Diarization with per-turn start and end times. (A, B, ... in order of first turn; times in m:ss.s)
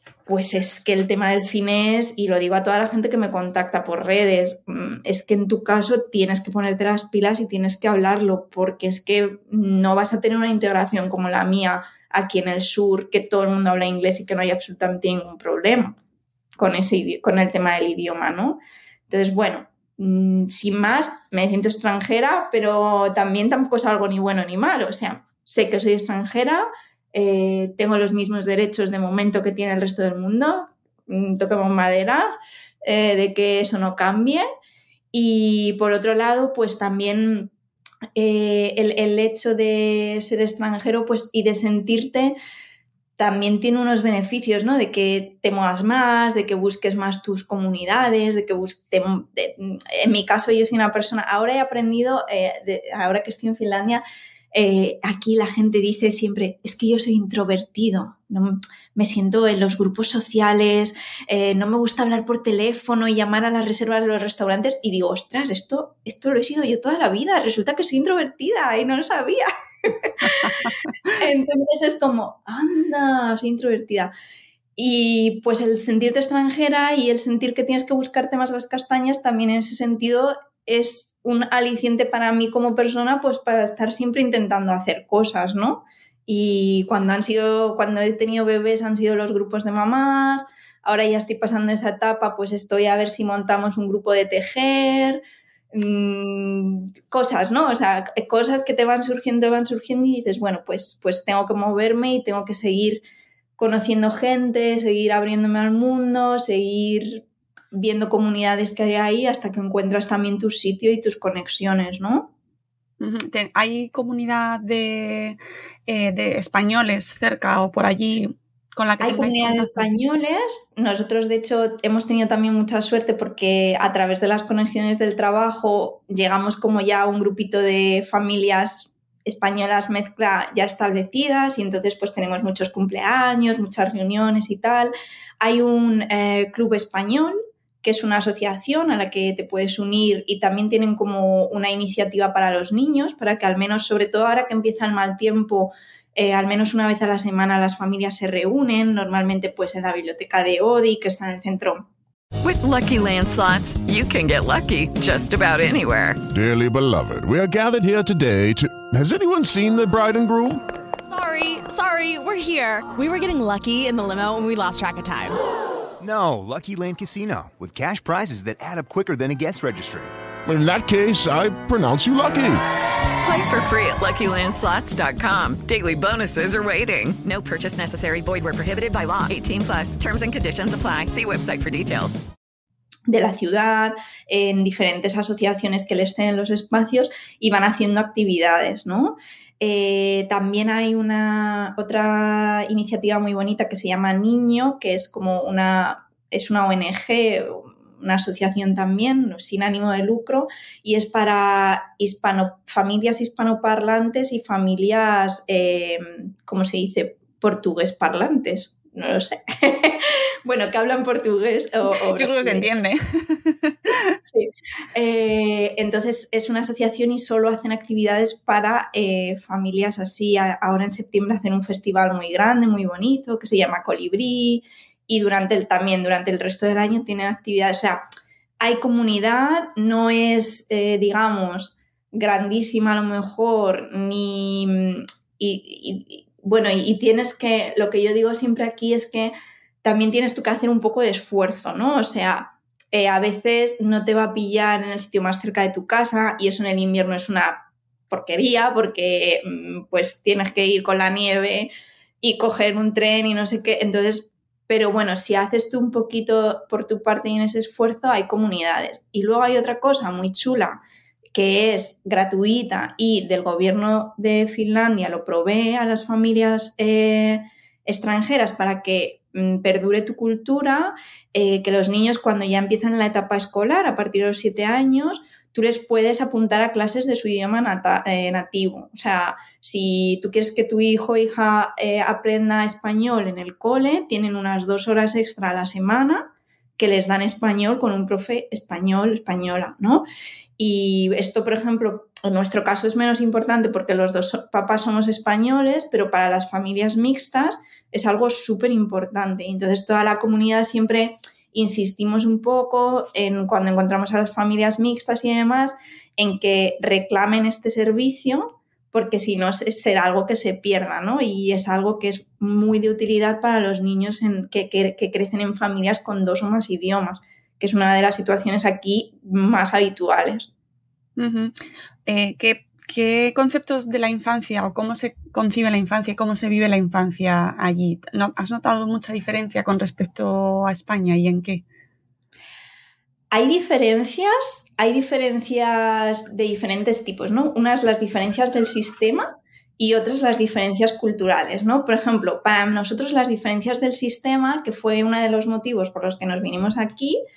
0:00.3-0:16.0 A
0:16.6-0:32.3 A
0:32.8-0:34.4 A
0:35.1-0:37.5 A
0:38.2-0:42.4 A
0:43.2-0:54.0 A
0:54.5-1:10.5 A
1:10.4-1:10.7 B
1:11.1-1:14.1 A
1:14.8-1:35.2 A
1:35.7-1:43.0 A
1:43.6-1:52.3 A
1:53.0-1:59.9 B
1:59.0-2:31.9 A
2:32.4-2:36.2 C
2:36.3-2:40.6 D
2:41.1-2:45.4 E
2:46.0-2:50.1 F
2:50.5-2:52.6 D
2:53.2-3:02.2 C
3:03.1-3:32.7 A
3:31.9-3:34.2 B
3:34.2-3:48.0 A
3:48.6-4:11.7 A
4:12.2-4:20.8 A
4:21.3-4:50.0 A
4:50.6-5:20.5 A
5:21.2-5:21.5 B
5:22.1-5:31.6 B
5:33.3-5:47.2 A